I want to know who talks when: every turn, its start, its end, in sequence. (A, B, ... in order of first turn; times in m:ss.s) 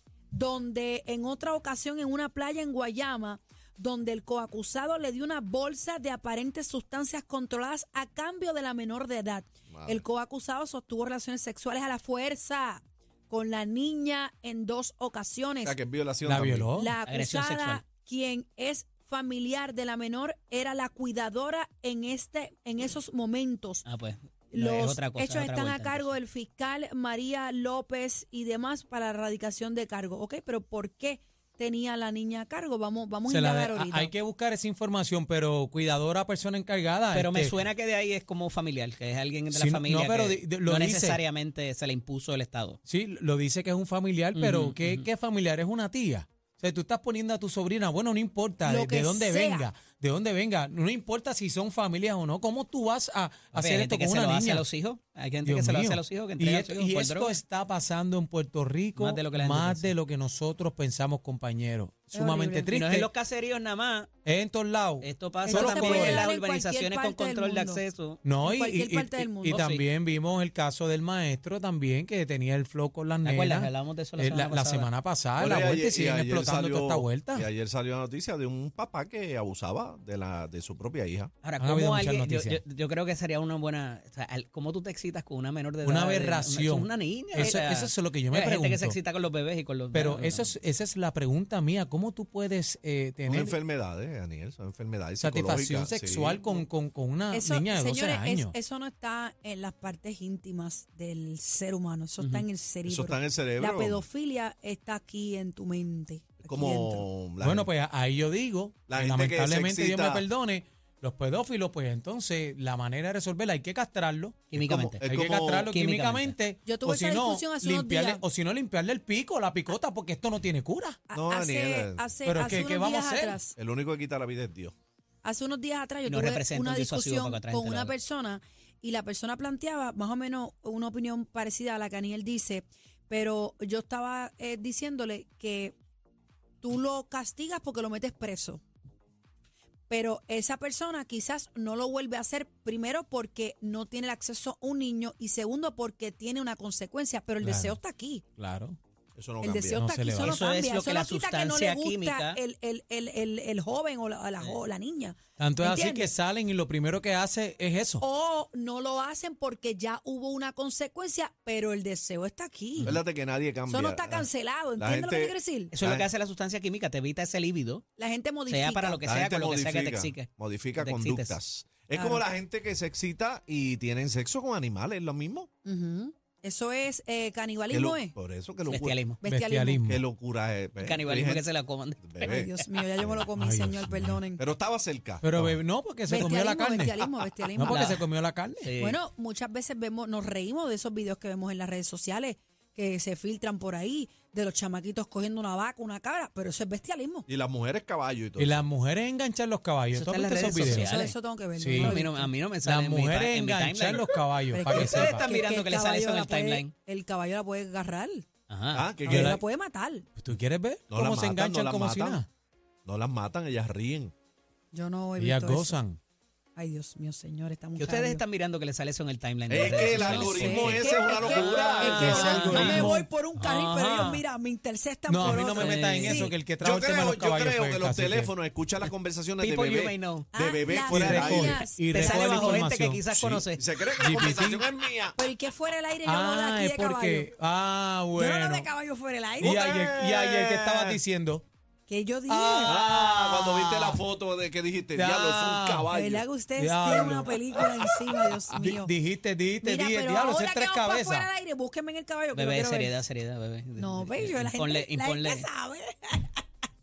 0:00.3-0:15.8 A
0:09.7-0:10.0 B
0:15.6-0:16.7 B
0:16.2-0:17.0 C
0:16.7-0:23.8 A
0:17.0-0:17.8 D
0:23.8-0:26.1 D
0:24.5-0:34.1 A
0:33.3-0:37.6 C
0:37.1-0:42.8 D
0:39.5-0:41.2 C
0:42.9-0:54.7 C
0:44.4-0:45.1 D
0:48.7-0:49.7 A
0:53.5-0:57.4 D
0:55.4-1:03.1 C
0:59.0-0:59.9 D
1:02.1-1:02.7 A
1:02.7-1:04.1 D
1:04.3-1:06.2 C
1:05.0-1:08.2 D
1:05.4-1:07.8 A
1:08.2-1:17.5 C
1:08.4-1:09.6 A
1:09.4-1:09.9 D
1:13.2-1:14.9 D
1:15.4-1:21.3 B
1:21.4-1:30.5 D
1:21.6-1:22.6 C
1:25.8-1:29.0 C
1:29.9-1:33.6 C
1:33.3-1:36.5 B
1:35.2-1:38.6 C
1:37.3-1:47.1 A
1:42.2-1:42.4 D
1:42.9-1:44.0 B
1:46.4-1:47.7 B
1:47.4-1:54.5 C
1:48.9-1:50.3 B
1:54.5-1:55.0 D
1:54.6-1:55.7 B
1:55.0-2:01.0 C
1:55.6-1:56.4 D
1:56.6-1:58.2 A
2:01.1-2:03.6 A
2:01.1-2:02.0 B
2:02.2-2:03.4 C
2:03.6-2:04.7 B
2:05.2-2:15.8 A
2:06.1-2:07.9 D
2:16.6-2:18.6 A
2:19.9-2:28.2 A
2:27.4-2:27.8 C
2:28.4-2:28.8 C
2:29.2-2:29.9 B
2:29.4-2:36.1 A
2:29.8-2:30.4 C
2:30.2-2:32.4 D
2:35.4-2:38.0 C
2:38.0-2:43.0 A
2:42.8-2:46.1 B
2:43.7-2:45.7 A
2:45.7-2:47.8 D
2:48.0-2:49.0 A
2:48.5-2:51.4 D
2:49.0-2:55.5 B
2:51.9-2:52.2 A
2:55.6-2:58.1 A
2:57.7-2:59.0 B
2:58.7-2:59.2 D
2:59.2-2:59.8 A
2:59.3-3:00.0 C
2:59.9-3:01.5 B
3:00.8-3:02.4 D
3:02.0-3:03.3 B
3:02.2-3:04.4 A
3:03.4-3:04.2 C
3:04.4-3:05.6 B
3:05.2-3:07.0 C
3:06.1-3:08.0 A
3:07.6-3:08.7 C
3:07.6-3:08.0 D
3:08.6-3:09.0 D
3:08.8-3:17.3 A
3:17.3-3:18.6 B
3:18.4-3:20.9 C
3:19.9-3:21.2 D
3:20.5-3:22.3 A
3:21.6-3:22.0 C
3:21.8-3:26.7 D
3:22.6-3:25.2 C
3:24.5-3:28.3 A
3:28.5-3:28.9 D
3:28.7-3:29.4 B
3:29.0-3:30.1 A
3:29.1-3:29.4 C
3:30.2-3:32.3 C
3:30.9-3:32.2 B
3:32.8-3:34.1 B
3:34.7-3:35.8 A
3:35.2-3:36.0 C
3:36.6-3:38.2 A
3:37.8-3:44.2 D
3:39.5-3:42.6 B
3:39.8-3:46.3 A
3:41.9-3:43.1 C
3:45.1-3:48.3 C
3:45.2-3:46.3 D
3:46.6-3:51.6 B
3:49.4-3:50.3 D
3:50.3-3:52.6 A
3:50.9-3:53.1 C
3:51.9-3:53.6 D
3:53.2-3:55.2 B
3:54.0-3:54.7 C
3:55.2-3:57.3 A
3:56.0-3:58.7 C
3:58.2-3:59.6 A
3:59.4-4:01.0 B
3:59.4-4:01.4 C
4:01.9-4:02.8 A
4:02.3-4:04.0 C
4:02.6-4:06.3 B
4:05.0-4:05.9 C
4:05.9-4:08.9 A
4:06.6-4:07.4 C
4:07.6-4:07.9 B
4:08.6-4:11.3 C
4:09.6-4:13.0 A
4:12.3-4:15.5 D
4:13.8-4:16.4 A